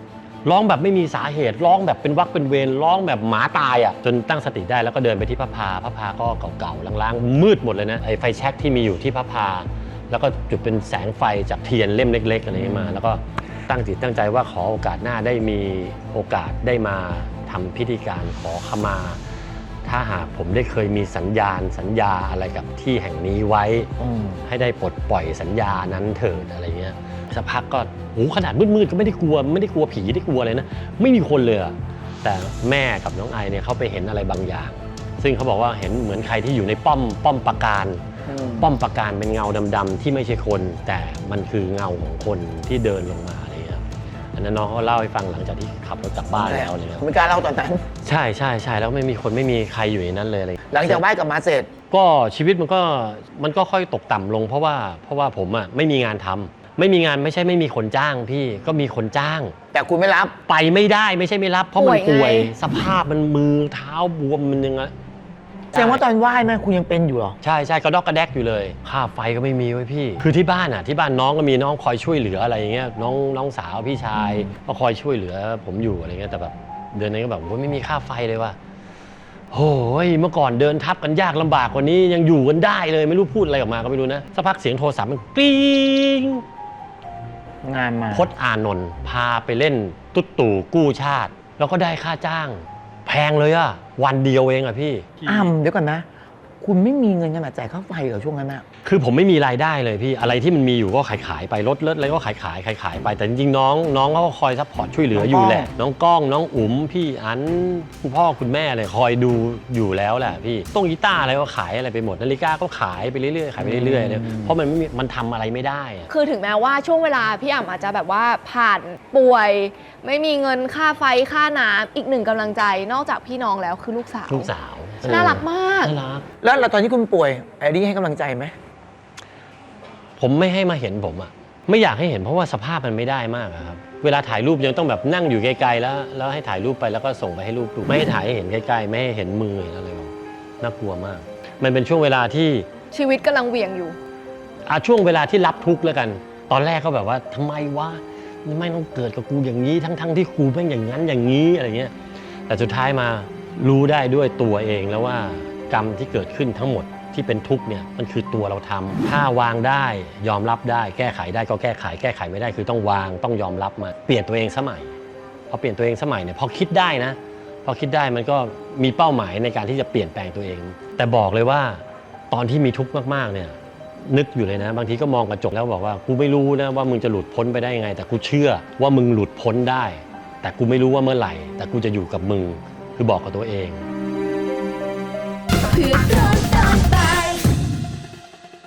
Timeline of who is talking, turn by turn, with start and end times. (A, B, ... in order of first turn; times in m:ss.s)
0:00.4-0:19.2 A
0:12.5-0:13.0 B
0:19.8-0:23.9 A
0:24.0-0:24.4 B
0:24.5-0:38.0 A
0:38.3-0:38.7 B
0:38.6-0:43.8 A
0:44.3-0:47.0 A
0:46.3-0:47.8 B
0:48.0-0:51.0 A
0:50.7-0:51.7 B
0:51.9-0:59.5 A
0:59.7-1:00.4 B
1:00.4-1:04.9 A
1:01.8-1:02.5 C
1:05.7-1:06.0 A
1:05.7-1:07.4 B
1:07.4-1:18.6 A
1:19.5-1:26.4 A
1:27.6-1:28.3 B
1:28.1-1:35.5 A
1:35.2-1:36.0 B
1:36.6-1:38.6 B
1:38.8-1:56.1 A
1:45.1-1:45.7 B
1:53.6-1:54.5 B
1:56.1-2:04.5 C
2:04.3-2:06.2 A
2:05.0-2:05.9 C
2:06.4-2:08.5 B
2:10.2-2:22.6 A
2:22.9-2:24.0 C
2:24.6-2:31.9 A
2:32.5-2:44.9 A
2:45.5-2:53.5 A
2:54.0-3:03.8 A
3:05.6-3:07.5 C